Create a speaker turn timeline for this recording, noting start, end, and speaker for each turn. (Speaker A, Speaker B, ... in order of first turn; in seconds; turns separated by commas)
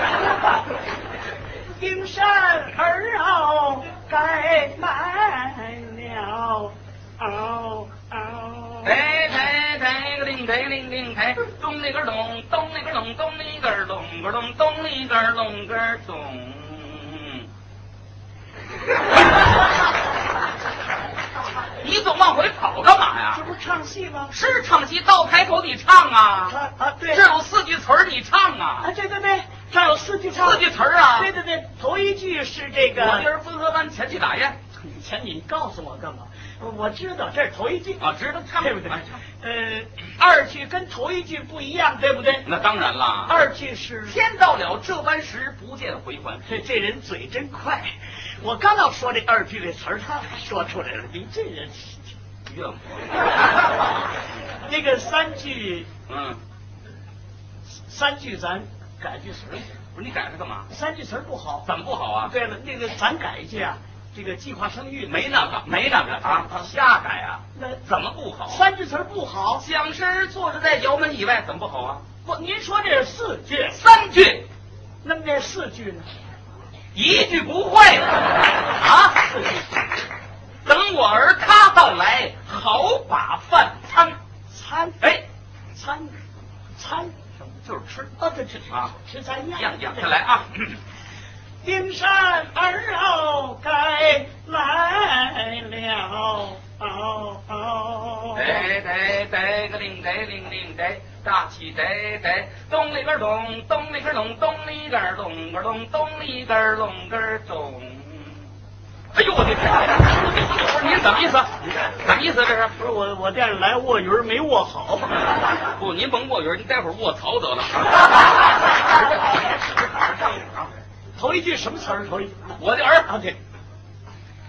Speaker A: 1.8-9.1, Speaker B: 8.8-17.5, Speaker B: 21.8-23.4, Speaker A: 23.3-24.3, Speaker B: 24.3-26.5, Speaker A: 26.5-27.3, Speaker B: 27.1-28.9, Speaker A: 28.8-33.3, Speaker B: 30.3-31.3, Speaker B: 32.9-34.6, Speaker A: 34.8-38.1, Speaker B: 38.0-39.2, Speaker A: 38.6-42.5, Speaker B: 42.4-43.4, Speaker A: 43.2-44.2, Speaker B: 44.0-46.6, Speaker A: 46.5-52.1, Speaker B: 52.5-53.2, Speaker A: 54.5-55.9, Speaker B: 56.1-56.4, Speaker A: 57.8-59.7, Speaker B: 59.9-60.7, Speaker A: 60.7-61.7, Speaker B: 61.6-62.3, Speaker A: 62.2-65.5, Speaker B: 65.0-68.6, Speaker A: 67.5-67.8, Speaker A: 68.5-69.7, Speaker B: 69.6-72.0, Speaker A: 72.2-73.8, Speaker B: 73.5-74.5, Speaker A: 75.0-76.1, Speaker B: 76.9-79.5, Speaker B: 80.6-84.2, Speaker A: 84.5-85.2, Speaker A: 85.7-86.1, Speaker A: 86.8-90.2, Speaker B: 89.5-90.8, Speaker A: 91.6-98.7, Speaker B: 98.3-108.4, Speaker B: 109.1-112.8, Speaker A: 112.8-115.2, Speaker B: 115.7-120.7, Speaker A: 121.2-122.6, Speaker B: 122.6-123.4